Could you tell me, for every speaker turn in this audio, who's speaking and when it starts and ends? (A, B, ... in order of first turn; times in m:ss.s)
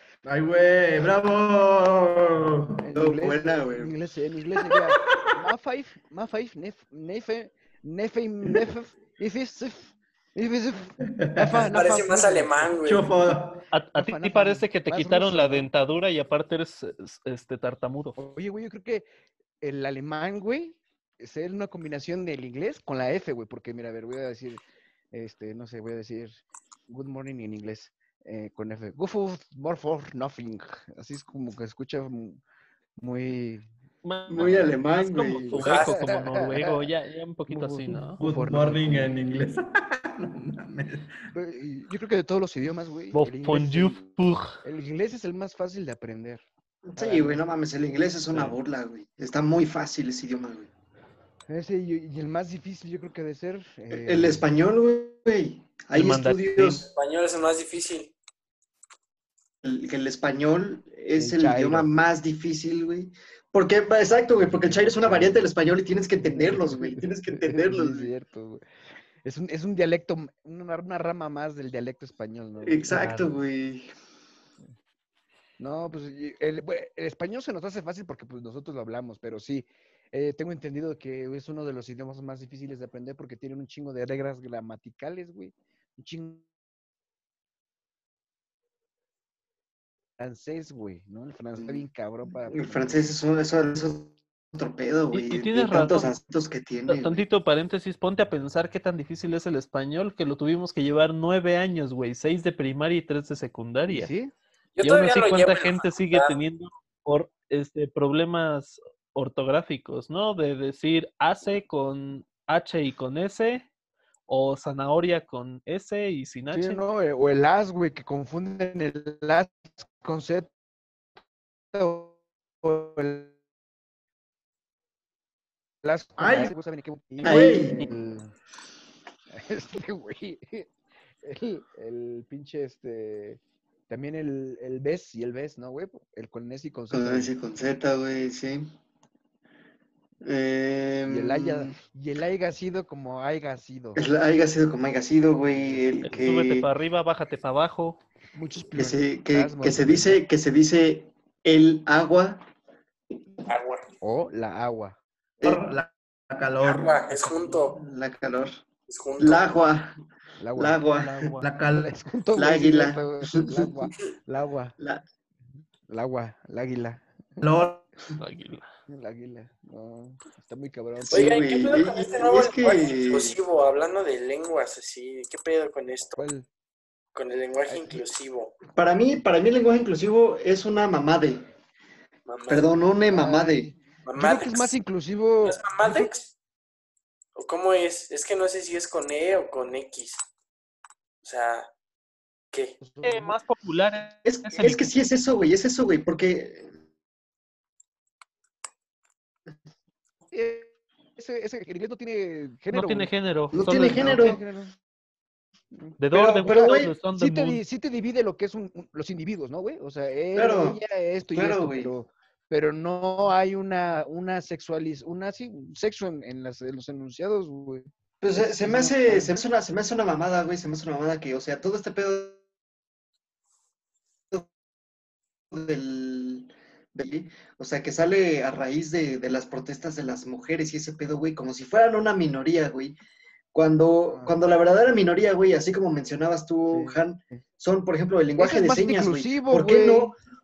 0:00.2-0:02.8 A
0:02.8-0:12.7 B
0:02.9-0:03.9 C
0:04.7-0:05.3 A
0:11.0-0:11.7 A
0:11.6-0:13.1 D
0:12.8-0:13.6 A
0:13.7-0:18.2 E
0:14.0-0:15.7 B
0:18.2-0:19.1 B
0:19.6-0:32.4 B
0:33.0-0:33.7 B
0:34.0-0:38.2 E
0:34.3-0:35.8 C
0:35.5-0:36.0 D
0:35.7-0:36.9 B
0:37.5-0:39.2 B
0:38.2-0:41.1 A
0:41.3-0:46.4 B
0:43.1-0:44.6 E
0:46.8-0:50.7 C
0:47.0-0:47.4 B
0:51.5-0:54.5 B
0:53.9-0:56.9 C
0:55.9-0:56.8 E
0:56.9-0:58.1 D
0:59.6-1:08.1 C
1:01.2-1:01.9 B
1:04.6-1:05.5 B
1:06.2-1:08.6 B
1:09.2-1:13.4 B
1:12.6-1:13.9 C
1:15.6-1:26.4 B
1:30.2-1:33.0 B
1:31.6-1:31.8 C
1:32.5-1:37.2 C
1:35.1-1:36.1 E
1:36.9-1:44.1 E
1:43.9-1:44.3 B
1:44.8-1:46.4 D
1:44.8-1:53.7 E
1:54.3-1:56.8 E
1:56.5-2:00.5 B
2:01.7-2:03.3 B
2:05.8-2:08.3 B
2:06.2-2:06.5 A
2:07.2-2:07.7 C
2:07.2-2:07.9 A
2:09.3-2:10.7 B
2:11.2-2:17.3 B
2:16.9-2:18.7 C
2:20.2-2:21.7 C
2:21.1-2:24.0 B
2:24.0-2:26.7 C
2:25.6-2:26.3 B
2:26.1-2:28.0 E
2:28.4-2:30.2 B
2:28.8-2:32.5 C
2:33.5-2:33.9 D
2:34.0-2:35.0 B
2:35.4-2:37.3 A
2:35.4-2:35.7 C
2:36.6-2:37.8 D
2:37.8-2:38.6 C
2:38.9-2:39.6 D
2:39.2-2:40.0 C
2:40.4-2:44.8 B
2:40.6-2:41.3 C
2:41.4-2:41.9 A
2:42.4-2:43.9 C
2:44.8-2:45.0 C
2:45.9-2:47.4 B
2:47.4-2:47.9 A
2:48.2-2:48.7 E
2:48.9-2:51.4 B
2:51.1-2:56.2 D
2:51.1-2:53.4 C
2:56.2-2:56.5 B
2:57.2-2:58.6 D
2:57.7-2:58.0 B
2:58.7-3:01.5 C
3:02.3-3:02.7 D
3:02.5-3:03.7 C
3:03.1-3:06.1 B
3:04.1-3:04.8 D
3:05.4-3:06.3 D
3:07.4-3:10.2 D
3:11.2-3:11.7 D
3:12.5-3:12.8 D
3:12.8-3:13.4 B
3:13.0-3:14.9 E
3:14.2-3:16.7 C
3:20.3-3:23.1 B
3:22.7-3:24.3 E
3:23.5-3:24.4 C
3:23.8-3:24.7 B
3:25.7-3:39.4 B
3:26.0-3:27.6 E
3:26.1-3:27.0 C
3:30.3-3:30.8 C
3:31.3-3:31.9 C
3:38.2-3:42.4 C
3:45.5-3:53.0 C
3:53.5-4:00.2 C
3:54.1-3:54.4 B
3:56.7-3:57.4 B
3:58.4-4:00.2 B